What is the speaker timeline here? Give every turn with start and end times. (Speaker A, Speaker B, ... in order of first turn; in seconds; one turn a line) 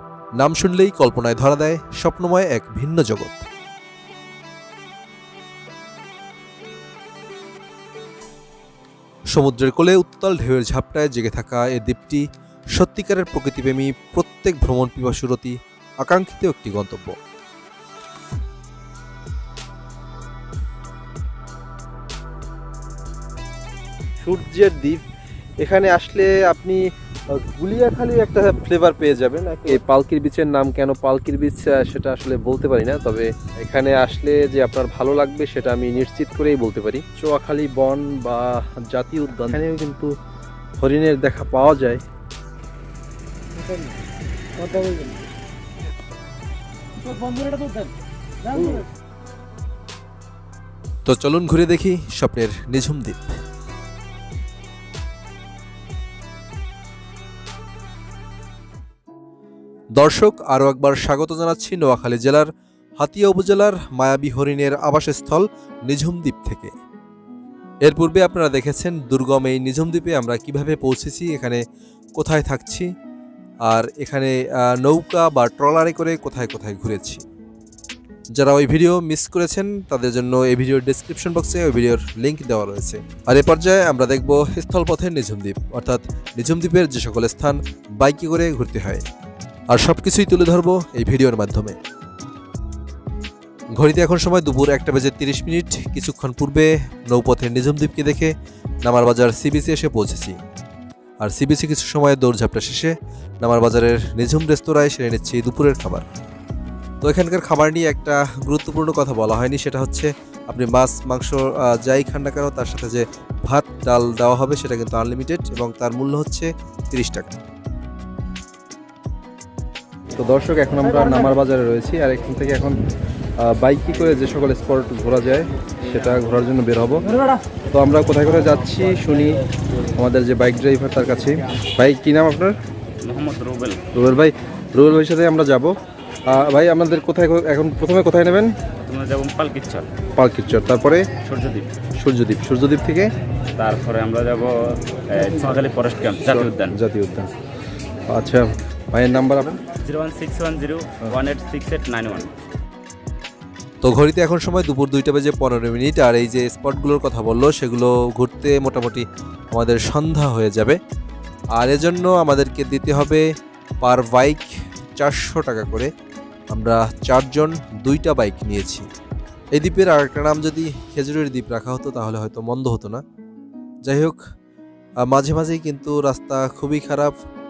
Speaker A: 0.4-3.4
Speaker A: 9.3-17.1
Speaker A: 24.2-25.0
Speaker A: 25.6-26.8
Speaker A: 27.3-40.1
Speaker A: 40.8-42.0
Speaker A: 48.5-48.8
Speaker A: 51.0-53.3
Speaker A: 59.9-62.5
Speaker A: 63.0-66.7
Speaker A: 67.8-71.6
Speaker A: 72.2-72.9
Speaker A: 73.7-77.2
Speaker A: 78.3-89.0
Speaker A: 89.7-91.8
Speaker A: 93.8-98.3
Speaker A: 98.8-100.4
Speaker A: 101.2-106.0
Speaker A: 107.0-117.4
Speaker A: 120.2-122.8
Speaker A: 123.5-127.1
Speaker A: 127.7-129.4
Speaker A: 130.0-132.5
Speaker B: 133.0-133.9
Speaker A: 133.9-135.7
Speaker A: 136.3-138.5
Speaker B: 138.8-139.9
Speaker A: 140.2-141.1
Speaker B: 141.2-141.7
Speaker A: 142.0-143.1
Speaker B: 143.6-146.8
Speaker A: 146.2-147.3
Speaker A: 148.1-149.6
Speaker B: 149.8-152.3
Speaker A: 153.8-160.8
Speaker A: 161.6-163.2
Speaker A: 163.8-165.9
Speaker A: 166.5-168.8
Speaker A: 169.5-173.0
Speaker A: 173.8-174.2
Speaker A: 175.1-177.1